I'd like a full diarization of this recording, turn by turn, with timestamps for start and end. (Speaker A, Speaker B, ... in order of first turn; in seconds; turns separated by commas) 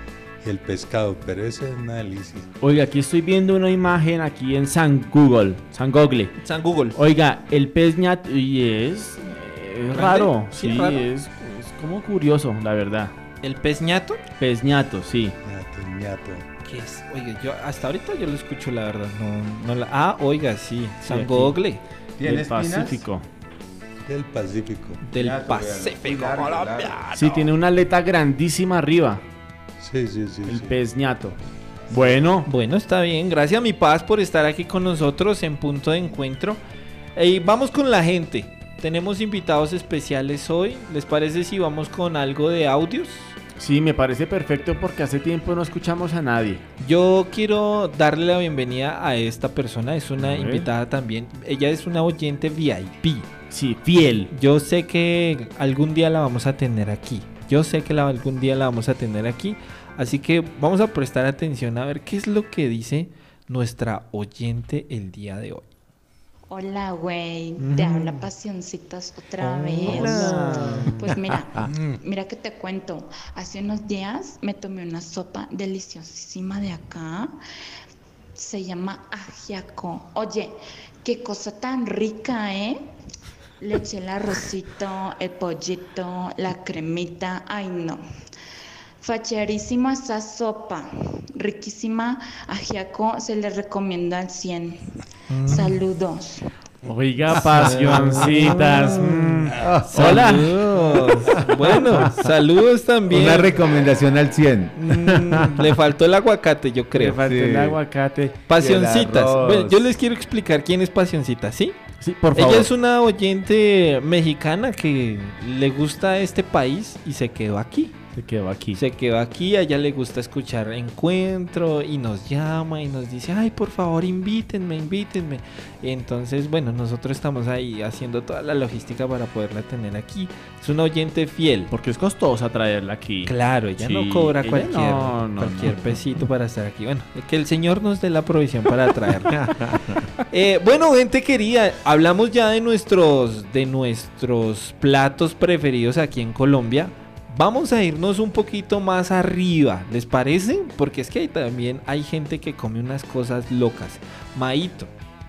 Speaker A: 0.4-2.5, Speaker B: 2.6-6.3, Speaker C: 6.4-7.0, Speaker B: 6.9-13.1, Speaker C: 9.9-11.0, Speaker C: 13.4-14.2, Speaker B: 14.4-15.3, Speaker A: 15.4-16.4, Speaker C: 16.6-21.8, Speaker B: 21.1-21.5, Speaker D: 22.2-23.0, Speaker B: 22.2-23.2, Speaker A: 24.1-25.0, Speaker C: 25.0-27.5, Speaker D: 25.1-27.0, Speaker B: 27.1-29.2, Speaker A: 29.8-30.8, Speaker B: 30.5-31.4, Speaker B: 31.9-32.5, Speaker C: 32.5-36.6, Speaker C: 37.1-43.3, Speaker B: 43.6-46.6, Speaker C: 46.8-53.3, Speaker B: 50.2-50.7, Speaker B: 53.5-54.3, Speaker C: 54.3-65.7, Speaker E: 66.5-77.3, Speaker B: 67.6-68.3, Speaker B: 69.4-71.0, Speaker C: 69.9-70.8, Speaker A: 71.6-72.0, Speaker E: 78.4-80.5, Speaker E: 81.0-82.8, Speaker E: 83.6-88.0, Speaker E: 89.0-94.9, Speaker C: 95.3-95.8, Speaker E: 95.4-96.3, Speaker B: 96.8-100.6, Speaker D: 97.4-100.5, Speaker C: 97.6-98.8, Speaker C: 99.9-103.5, Speaker D: 101.3-102.1, Speaker D: 103.1-105.7, Speaker C: 104.8-107.2, Speaker B: 106.9-108.4, Speaker D: 107.2-107.8, Speaker C: 108.5-111.8, Speaker D: 108.6-109.8, Speaker B: 112.0-112.7, Speaker C: 112.3-117.9, Speaker B: 118.2-118.8, Speaker C: 118.7-131.7, Speaker B: 131.7-135.9, Speaker C: 133.2-139.5, Speaker D: 139.3-140.0, Speaker C: 140.3-154.9